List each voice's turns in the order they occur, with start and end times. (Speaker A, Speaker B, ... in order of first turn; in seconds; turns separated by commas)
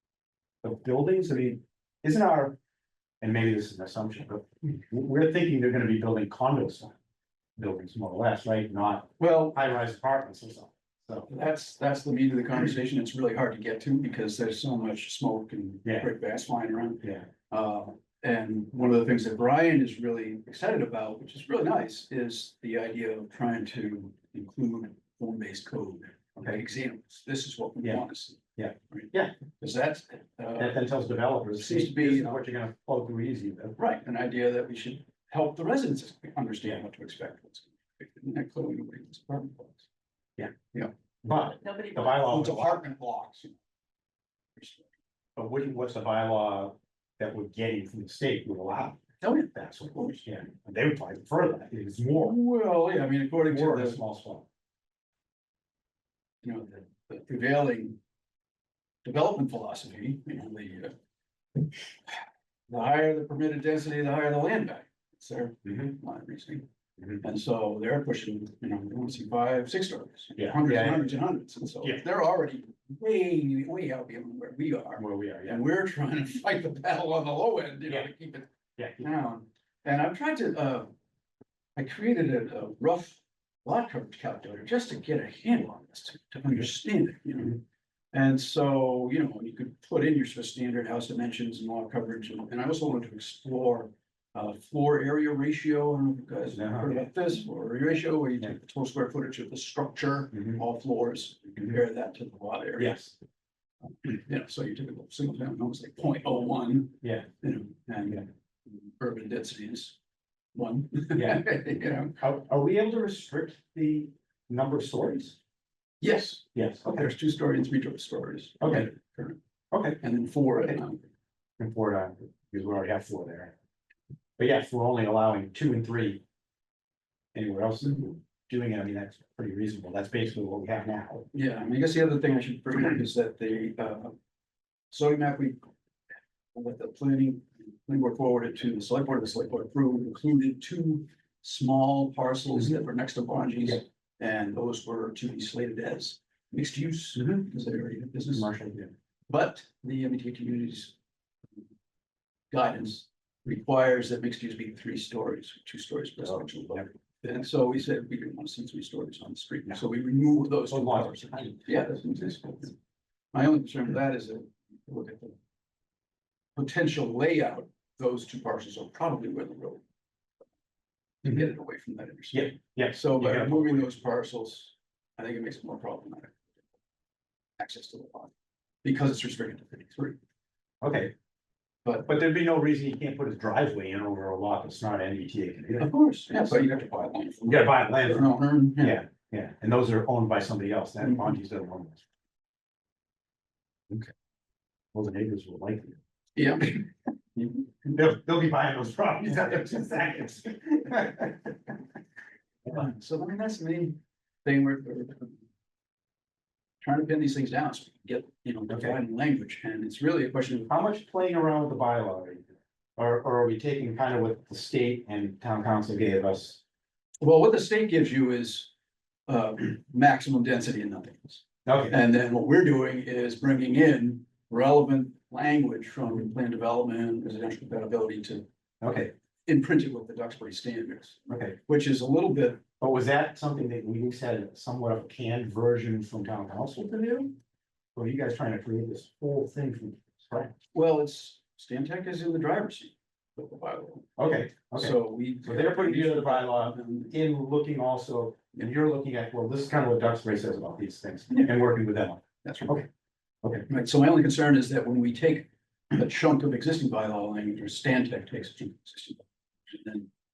Speaker A: 0.6-2.6, Speaker A: 3.2-7.0, Speaker A: 7.6-11.3, Speaker B: 9.2-9.6, Speaker B: 11.3-28.4, Speaker A: 17.0-17.3, Speaker A: 28.6-29.4, Speaker B: 28.9-30.8, Speaker A: 30.6-33.8, Speaker B: 31.5-32.4, Speaker B: 33.8-39.9, Speaker A: 41.2-42.8, Speaker B: 41.6-43.5, Speaker B: 44.6-44.9, Speaker A: 45.4-52.4, Speaker B: 49.2-50.2, Speaker B: 52.2-54.0, Speaker A: 53.5-54.5, Speaker B: 56.4-58.0, Speaker B: 59.0-60.9, Speaker B: 62.1-66.7, Speaker A: 65.7-65.9, Speaker B: 67.2-78.5, Speaker A: 70.4-71.2, Speaker A: 75.0-75.6, Speaker A: 78.8-79.1, Speaker B: 79.0-80.9, Speaker B: 81.8-87.6, Speaker B: 88.1-103.0, Speaker A: 96.5-97.0, Speaker A: 100.3-100.6, Speaker A: 102.8-103.2, Speaker B: 104.0-110.0, Speaker A: 107.0-107.3, Speaker B: 110.5-112.2, Speaker A: 111.1-111.5, Speaker A: 112.2-115.4, Speaker B: 116.0-119.4, Speaker A: 116.5-117.1, Speaker A: 118.6-118.9, Speaker A: 119.7-120.0, Speaker B: 120.0-121.0, Speaker A: 121.6-123.5, Speaker A: 124.4-126.2, Speaker A: 127.3-131.3, Speaker B: 131.3-134.1, Speaker B: 134.9-135.6, Speaker B: 136.5-148.5, Speaker A: 147.2-147.4, Speaker A: 148.3-148.9, Speaker B: 149.3-150.9, Speaker B: 152.5-162.8, Speaker A: 160.7-161.7, Speaker B: 163.3-165.4, Speaker B: 166.6-169.8, Speaker B: 171.2-176.5, Speaker A: 172.3-173.9, Speaker B: 177.6-178.3, Speaker B: 178.8-180.2, Speaker A: 180.8-181.1, Speaker A: 182.1-185.9, Speaker B: 185.8-189.0, Speaker A: 187.5-192.0, Speaker A: 194.9-196.0, Speaker B: 196.4-196.9, Speaker A: 197.9-201.7, Speaker B: 202.7-205.4, Speaker B: 206.8-210.7, Speaker A: 208.7-209.0, Speaker A: 210.7-216.6, Speaker B: 217.2-218.7, Speaker B: 219.3-228.5, Speaker A: 221.7-222.0, Speaker A: 228.8-229.1, Speaker B: 229.5-232.6, Speaker A: 231.3-231.6, Speaker A: 232.8-237.3, Speaker A: 237.9-240.5, Speaker B: 240.7-244.2, Speaker A: 244.2-252.9, Speaker B: 244.7-247.1, Speaker B: 252.4-252.8, Speaker B: 253.7-260.1